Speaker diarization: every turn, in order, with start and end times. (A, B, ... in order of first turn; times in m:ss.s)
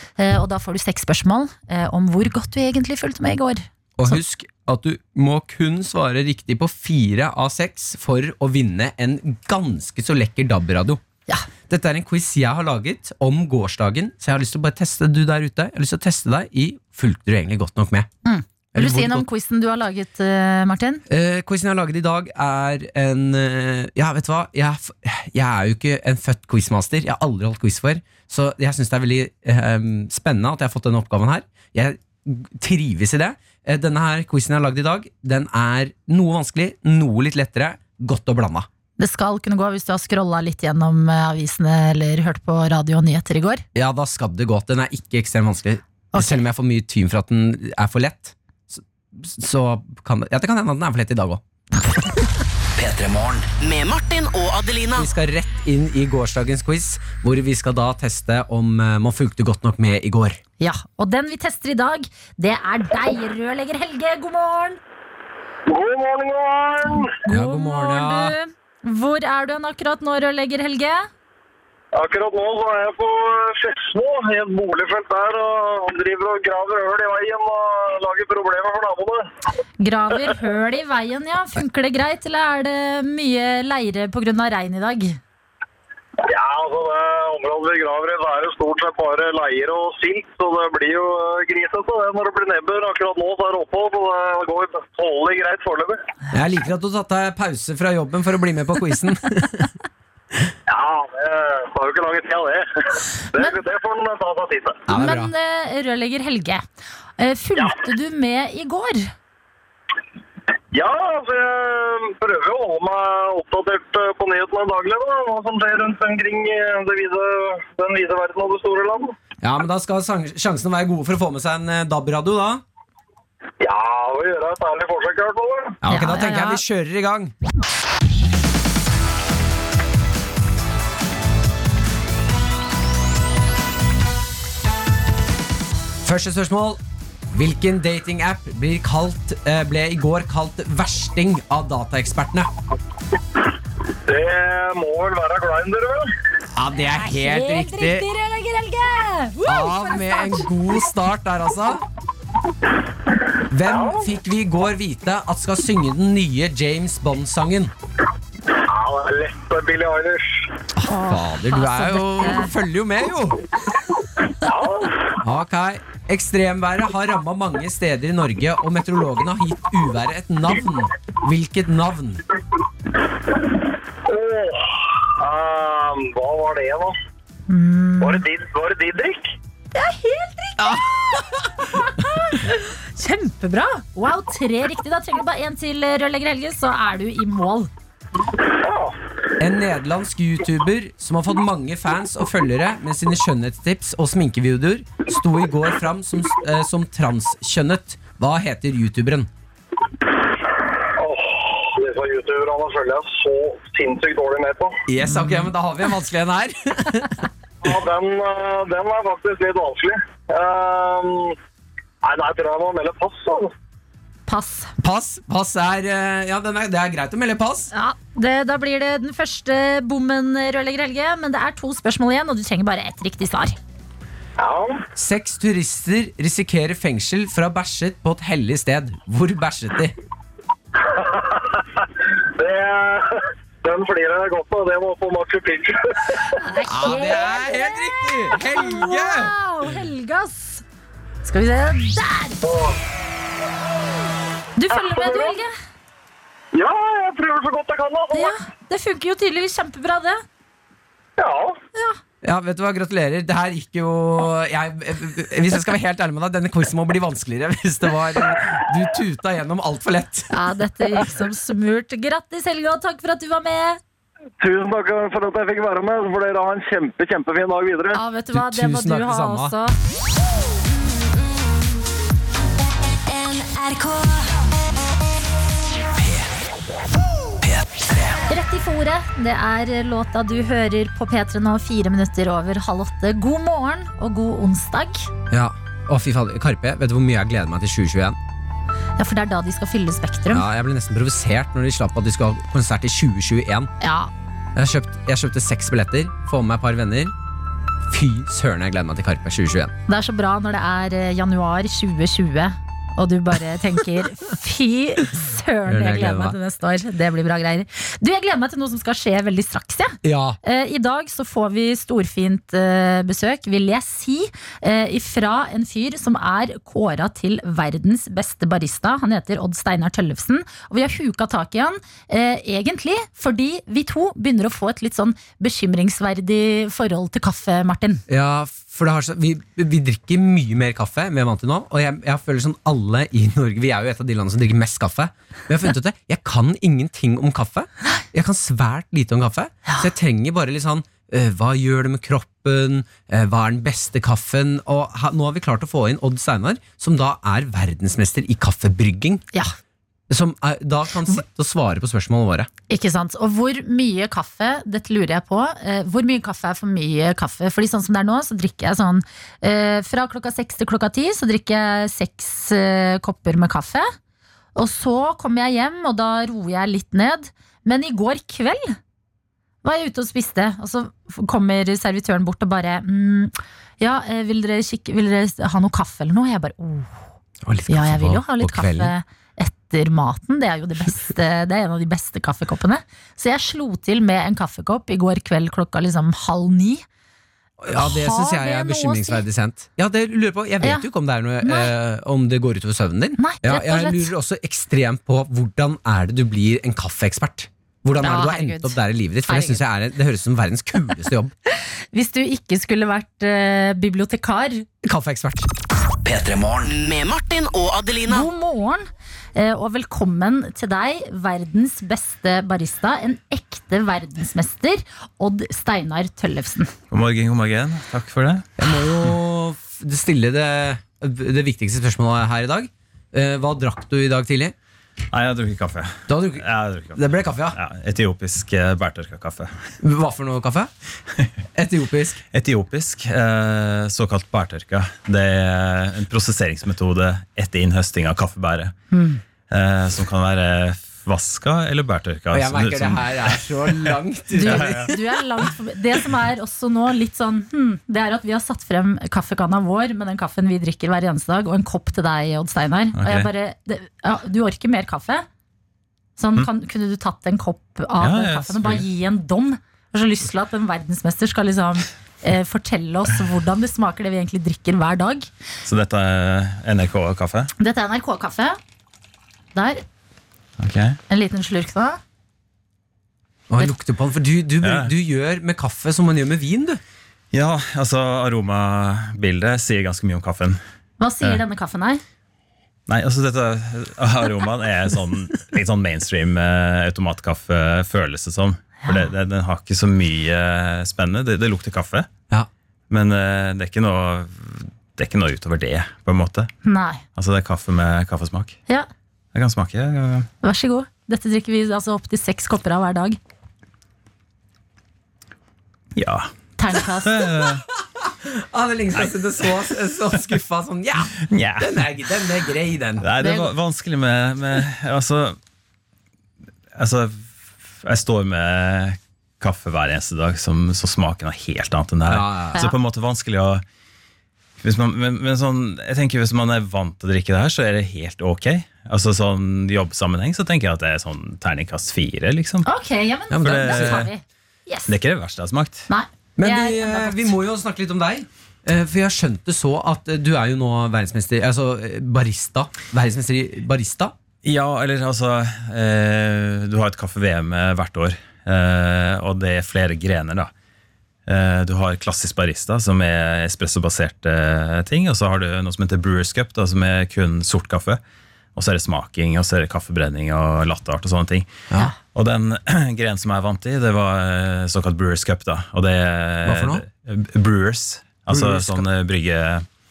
0:00.2-0:04.2 A
0:04.0-0:11.0 B
0:11.7-0:18.1 B
0:18.2-0:21.0 A
0:18.7-0:19.2 B
0:21.1-0:38.7 B
0:39.0-0:43.6 A
0:43.7-0:51.4 B
0:46.1-0:46.4 A
0:52.7-0:53.5 C
0:53.6-0:55.1 D
0:54.9-1:00.4 B
1:00.6-1:04.8 A
1:05.7-1:07.2 E
1:07.2-1:11.1 A
1:07.3-1:08.4 B
1:11.9-1:19.3 E
1:19.8-1:25.2 A
1:26.2-1:36.0 E
1:36.3-1:39.7 B
1:40.7-1:44.8 E
1:44.9-1:45.3 B
1:44.9-1:46.7 A
1:47.2-1:49.1 A
1:50.7-1:59.2 E
1:59.4-2:02.6 B
2:03.6-2:05.8 E
2:05.8-2:07.3 B
2:05.9-2:06.6 A
2:16.0-2:22.5 B
2:24.1-2:26.1 E
2:26.5-2:28.1 B
2:26.9-2:30.5 A
2:29.4-2:31.8 B
2:33.5-2:37.7 B
2:33.6-2:34.1 E
2:38.6-2:40.5 E
2:40.7-2:43.5 B
2:40.8-2:42.5 A
2:44.4-2:45.1 E
2:45.2-2:52.2 B
2:54.0-2:56.9 E
2:57.5-2:58.2 A
2:58.0-2:59.3 E
2:59.7-3:07.7 A
3:00.6-3:01.5 B
3:08.6-3:09.0 E
3:09.4-3:19.3 B
3:21.0-3:24.8 E
3:24.9-3:27.2 B
3:25.0-3:25.5 A
3:27.6-3:31.4 E
3:32.0-3:33.5 E
3:34.3-3:34.7 A
3:34.8-3:37.7 B
3:37.7-3:43.6 A
3:44.4-3:44.8 E
3:44.9-3:50.0 B
3:50.8-3:51.8 E
3:52.4-3:56.4 E
3:56.3-4:00.6 A
3:56.6-3:59.3 B
4:01.2-4:02.6 A
4:02.4-4:02.8 E
4:04.6-4:05.5 A
4:04.7-4:05.4 E
4:06.5-4:08.4 E
4:08.1-4:10.2 A
4:11.2-4:11.6 E
4:11.7-4:12.0 A
4:12.2-4:20.4 B
4:20.3-4:23.8 A
4:24.4-4:28.0 E
4:27.9-4:29.7 A
4:28.3-4:29.5 B
4:36.0-4:36.3 C
4:37.4-4:38.2 C
4:38.3-4:45.1 A
4:45.3-4:48.2 B
4:49.0-4:50.5 A
4:50.3-4:53.7 B
4:53.8-4:54.1 A
4:54.5-4:57.1 B
4:57.9-4:59.7 B
4:59.9-5:28.0 A
5:05.6-5:06.4 B
5:10.0-5:10.4 B
5:28.1-5:49.2 B
5:50.1-5:52.5 B
5:52.7-6:03.9 A
6:04.5-6:08.8 A
6:09.6-6:17.0 A
6:17.4-6:18.9 B
6:17.7-6:26.8 A
6:27.6-6:41.3 B
6:27.7-6:29.2 A
6:30.6-6:30.9 A
6:31.4-6:31.7 A
6:33.2-6:34.1 A
6:38.0-6:39.6 A
6:41.6-6:44.6 A
6:44.8-6:45.5 B
6:46.0-6:46.7 C
6:46.7-6:48.3 D
6:48.1-6:56.7 A
6:56.9-6:58.5 F
6:58.6-7:04.5 B
7:05.1-7:09.8 F
7:06.1-7:06.4 B
7:06.9-7:07.6 B
7:09.8-7:10.7 B
7:11.5-7:12.2 B
7:12.3-7:18.7 F
7:18.9-7:19.2 A
7:19.5-7:25.0 F
7:22.3-7:24.9 B
7:24.3-7:35.2 A
7:32.9-7:33.3 F
7:36.2-7:45.3 A
7:38.0-7:38.8 F
7:45.6-7:47.5 F
7:47.6-7:48.6 A
7:49.5-7:49.8 A
7:50.6-7:51.0 F
7:51.1-7:52.0 A
7:53.5-7:56.8 B
7:54.6-7:54.9 F
7:57.3-8:00.6 F
8:01.0-8:02.0 A
8:02.9-8:12.1 F
8:12.9-8:16.5 F
8:16.6-8:17.0 A
8:17.2-8:18.6 F
8:19.3-8:20.3 F
8:20.4-8:23.2 A
8:26.0-8:27.6 F
8:26.6-8:27.3 A
8:27.7-8:33.1 B
8:29.0-8:29.8 F
8:31.2-8:31.8 F
8:33.0-8:35.4 F
8:33.2-8:33.5 A
8:36.7-8:43.6 F
8:42.0-8:42.6 B
8:44.6-8:52.7 F
8:52.6-8:55.0 A
8:53.3-8:54.1 B
8:53.4-8:54.1 F
8:54.9-8:55.9 F
8:55.9-8:57.3 A
8:56.4-9:04.1 B
9:04.4-9:10.5 F
9:11.3-9:18.0 F
9:18.5-9:29.6 F
9:26.4-9:26.8 B
9:28.3-9:28.8 B